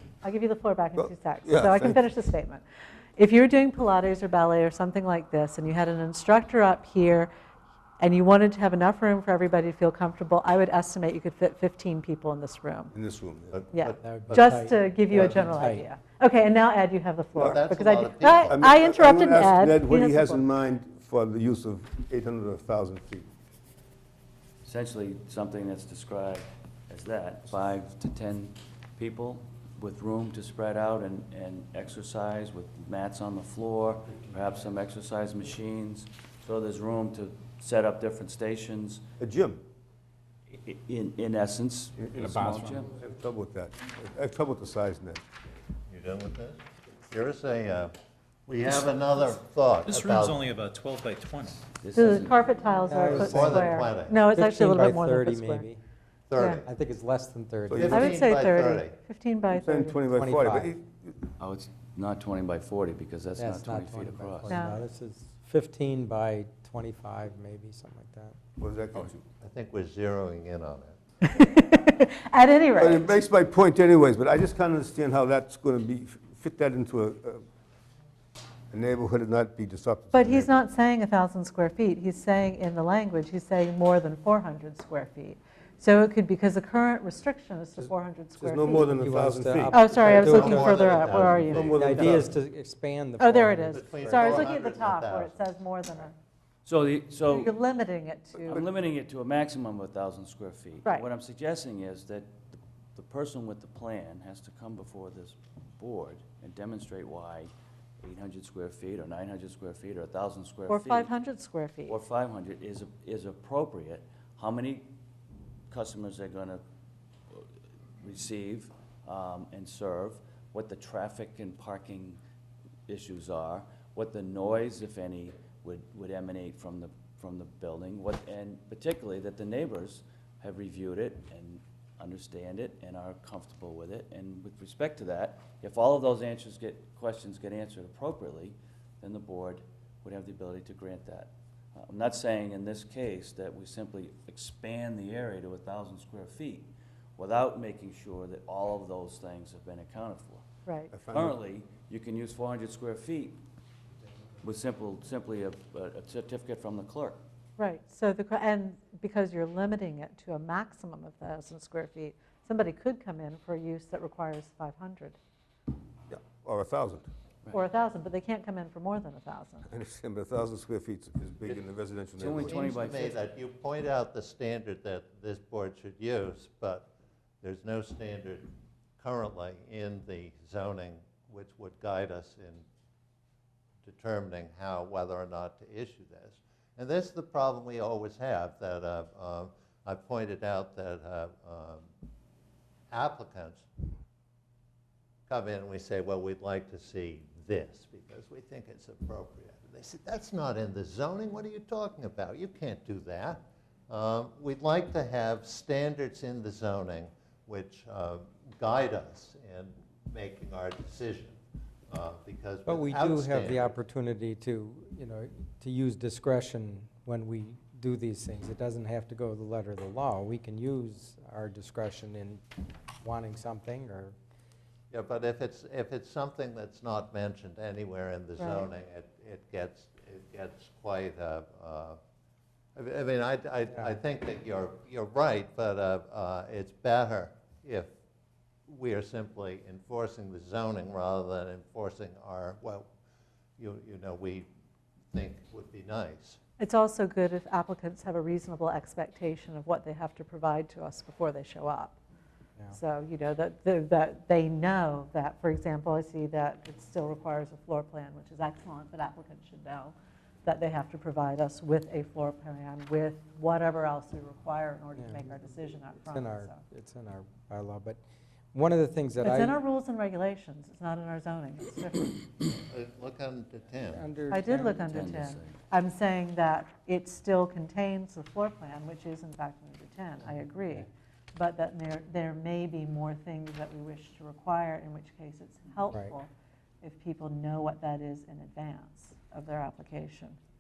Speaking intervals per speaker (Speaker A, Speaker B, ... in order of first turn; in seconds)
Speaker A: 0.2-2.6, 3.2-7.3, 8.0-12.9, 13.7-20.4, 52.0-55.6, 56.4-56.6, 57.9-60.1, 64.5-64.8, 71.2-73.2, 80.1-89.0, 89.7-92.2, 93.2-96.2, 97.3-98.6, 110.7-112.0, 157.6-165.2, 167.5-169.7, 228.4-228.7, 246.6-252.0, 252.7-266.6, 269.2-272.2, 274.3-286.3, 286.8-290.4
Speaker B: 0.9-2.0, 12.9-13.6, 17.4-17.7, 18.5-23.3, 39.2-39.6, 42.0-45.2, 53.0-53.5, 57.7-58.1, 59.5-61.3, 68.6-69.2, 72.8-77.4, 78.7-80.5, 87.8-90.1, 90.9-92.3, 150.9-151.4, 166.1-167.1, 169.7-172.7
Speaker C: 13.5-15.6, 17.4-18.6, 45.9-47.9, 48.5-50.5, 53.1-54.2, 56.3-56.7, 57.8-59.0, 69.0-71.0, 90.0-92.2, 93.7-95.4, 172.3-176.9, 177.4-182.6, 183.8-191.9, 192.9-193.7, 195.3-211.4, 211.9-213.8, 224.9-232.0, 232.8-237.9, 238.7-242.9, 243.6-244.5, 245.1-246.4, 272.6-274.1
Speaker D: 14.0-15.8, 52.9-55.8, 56.6-58.3, 60.1-60.7, 63.4-68.4, 88.8-94.4, 212.7-222.4, 223.0-224.2, 265.0-265.3, 266.1-268.0, 268.5-269.6, 273.9-275.1
Speaker E: 24.6-39.0, 40.5-42.9, 51.8-52.5, 61.4-64.6, 96.7-97.5, 98.4-111.1, 111.9-114.9, 115.7-116.6, 118.0-122.2, 122.9-150.4, 151.1-153.4, 154.4-157.2, 172.2-173.2, 274.9-275.6
Speaker F: 42.5-42.8, 49.9-51.6